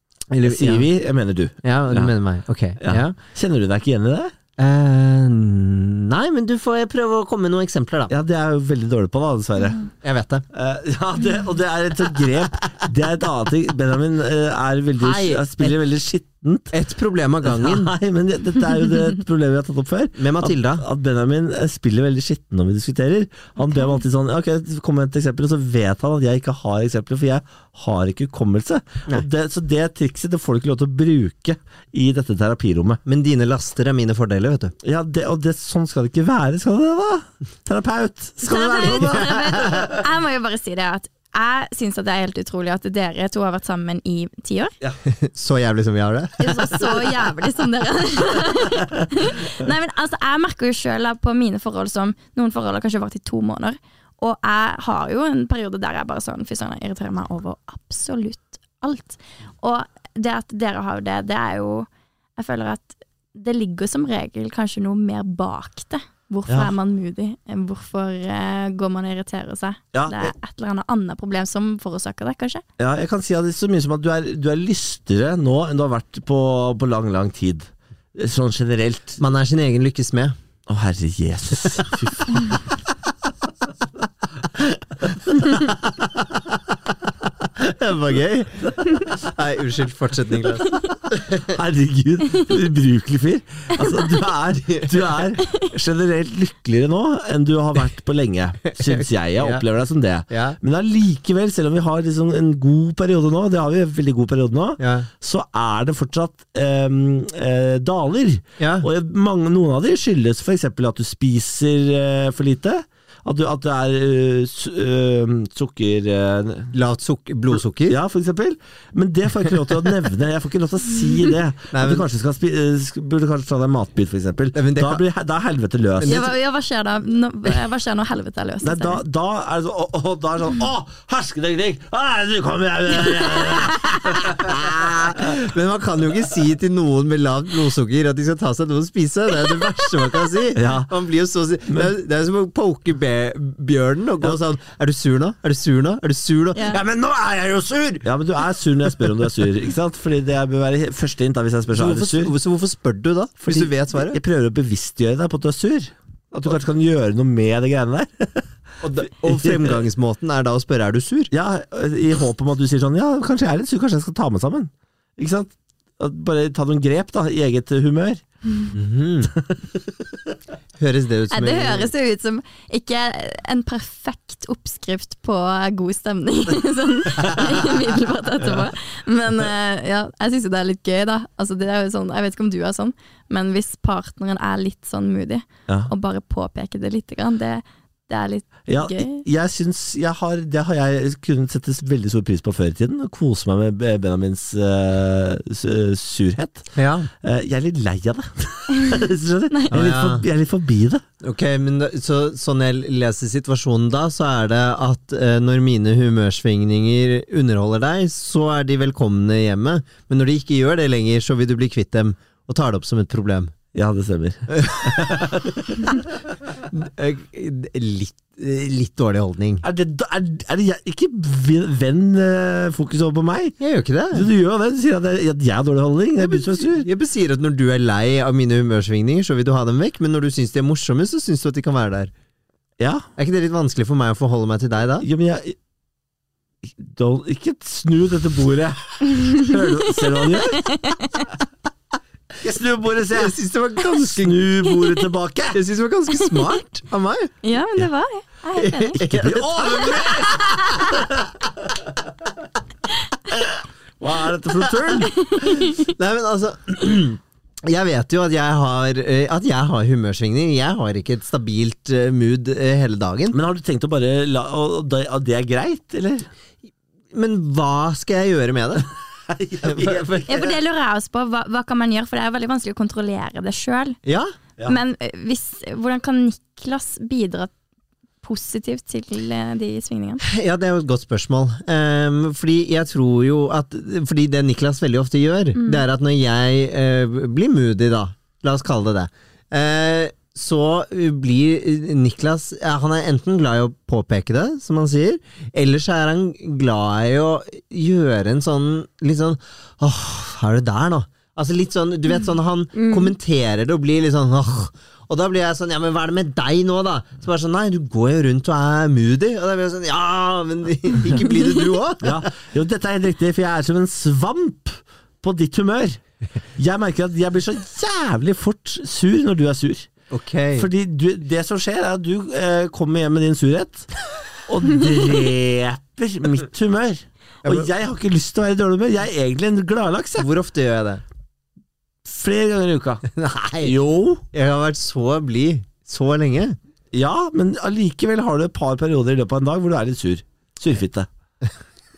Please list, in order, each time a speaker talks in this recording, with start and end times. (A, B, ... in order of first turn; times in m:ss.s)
0:00.3-0:00.9 A
0:00.4-0:02.1 B
0:01.6-0:03.1 A
0:02.8-0:04.3 B
0:04.6-0:08.1 A
0:08.1-0:09.8 B
0:10.0-0:10.4 A
0:10.5-0:16.7 B
0:15.0-0:15.7 A
0:16.7-0:17.9 A
0:17.4-0:33.0 B
0:20.2-0:20.8 A
0:33.0-0:34.7 A
0:34.8-0:40.0 B
0:38.4-0:44.7 C
0:45.2-0:46.7 A
0:46.4-1:12.6 C
1:06.5-1:06.7 B
1:09.9-1:10.3 B
1:12.8-1:19.2 B
1:19.2-1:20.4 A
1:20.7-1:22.6 B
1:25.5-1:26.2 A
1:27.6-1:31.4 A
1:31.4-1:56.7 B
1:34.7-1:35.0 A
1:38.7-1:39.6 A
1:40.3-1:40.6 A
1:44.8-1:45.1 A
1:48.6-1:48.9 A
1:56.7-1:58.0 A
1:57.5-2:06.2 B
2:01.7-2:02.0 A
2:04.5-2:05.0 A
2:06.0-2:06.3 A
2:06.0-2:09.0 C
2:08.6-2:15.4 B
2:14.2-2:26.8 A
2:20.5-2:20.9 B
2:26.5-2:26.8 C
2:26.7-2:32.3 B
2:31.7-2:34.2 A
2:33.5-2:38.5 B
2:38.8-2:41.3 A
2:39.2-2:39.8 B
2:41.3-2:48.2 B
2:48.7-2:49.3 A
2:49.3-2:49.6 B
2:50.8-2:51.9 A
2:51.3-3:09.2 C
3:08.7-3:16.7 B
3:16.8-3:17.1 A
3:17.2-3:21.0 B
3:19.5-3:19.8 C
3:19.7-3:20.2 A
3:21.2-3:33.5 A
3:33.7-3:36.0 B
3:34.5-3:35.4 A
3:36.6-3:39.6 A
3:39.6-3:43.6 B
3:43.6-3:44.3 A
3:44.1-3:46.9 B
3:46.2-3:52.1 A
3:52.8-3:53.0 B
3:53.2-3:55.0 A
3:55.0-3:55.6 B
3:56.6-4:00.7 B
4:00.3-4:01.3 C
4:02.4-4:05.6 B
4:03.1-4:04.4 A
4:05.5-4:07.3 A
4:06.1-4:06.5 C
4:07.4-4:09.0 C
4:08.6-4:11.0 A
4:09.0-4:11.3 B
4:13.3-4:15.1 B
4:15.2-4:15.9 C
4:15.4-4:23.4 A
4:23.3-4:26.3 B
4:27.1-4:28.9 A
4:29.3-4:30.5 B
4:29.6-4:30.5 A
4:30.3-4:34.0 C
4:34.0-4:34.3 A
4:34.6-4:37.5 C
4:38.2-4:40.2 C
4:40.2-5:12.2 A
4:45.6-4:45.8 C
5:02.7-5:03.1 C
5:12.0-5:16.0 B
5:16.6-5:19.9 B
5:20.1-5:20.7 A
5:20.5-5:23.9 B
5:24.5-5:30.3 B
5:30.2-5:31.0 A
5:32.0-5:33.0 B
5:33.1-5:33.8 A
5:33.6-5:34.2 B
5:34.3-5:36.6 A
5:36.9-5:41.1 B